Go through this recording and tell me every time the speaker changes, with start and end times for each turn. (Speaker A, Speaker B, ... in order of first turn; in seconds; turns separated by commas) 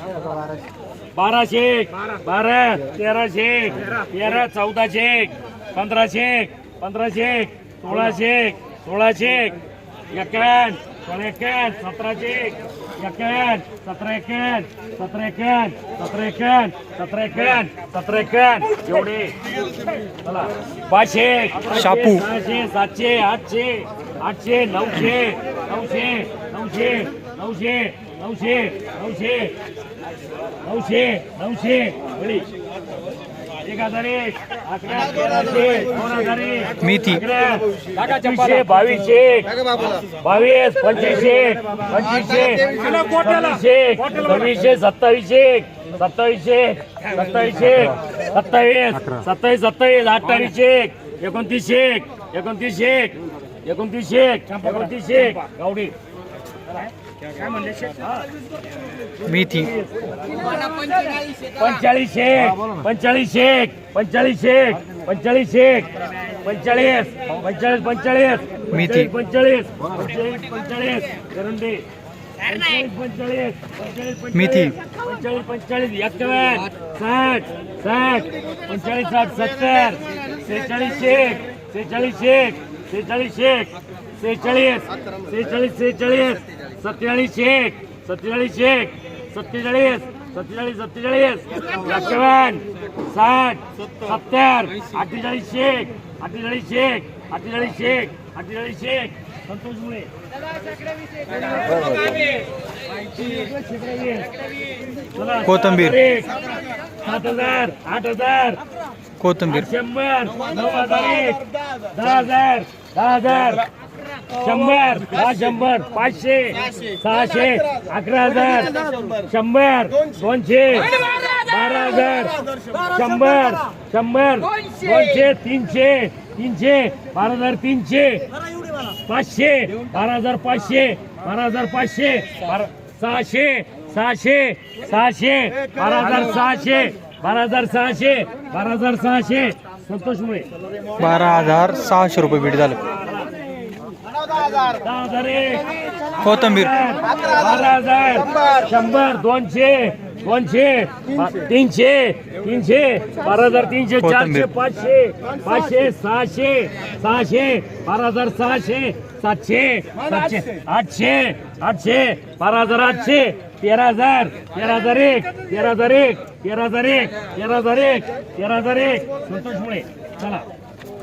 Speaker A: 1.1-9.6, Speaker A: 10.1-19.4, Speaker A: 20.2-29.6, Speaker B: 21.7-22.3, Speaker A: 30.6-32.5, Speaker A: 33.6-55.9, Speaker B: 36.8-37.2, Speaker B: 59.2-59.8, Speaker A: 61.4-71.8, Speaker B: 68.7-69.1, Speaker A: 72.4-100.1, Speaker B: 74.3-74.8, Speaker A: 101.5-102.3, Speaker A: 103.2-104.3, Speaker A: 105.1-108.6, Speaker B: 105.4-106.0, Speaker B: 109.2-109.7, Speaker A: 109.5-113.7, Speaker A: 114.3-128.3, Speaker A: 128.9-140.5, Speaker B: 141.0-142.8, Speaker A: 142.9-143.3, Speaker A: 144.8-170.5, Speaker B: 146.2-146.9, Speaker B: 154.0-154.5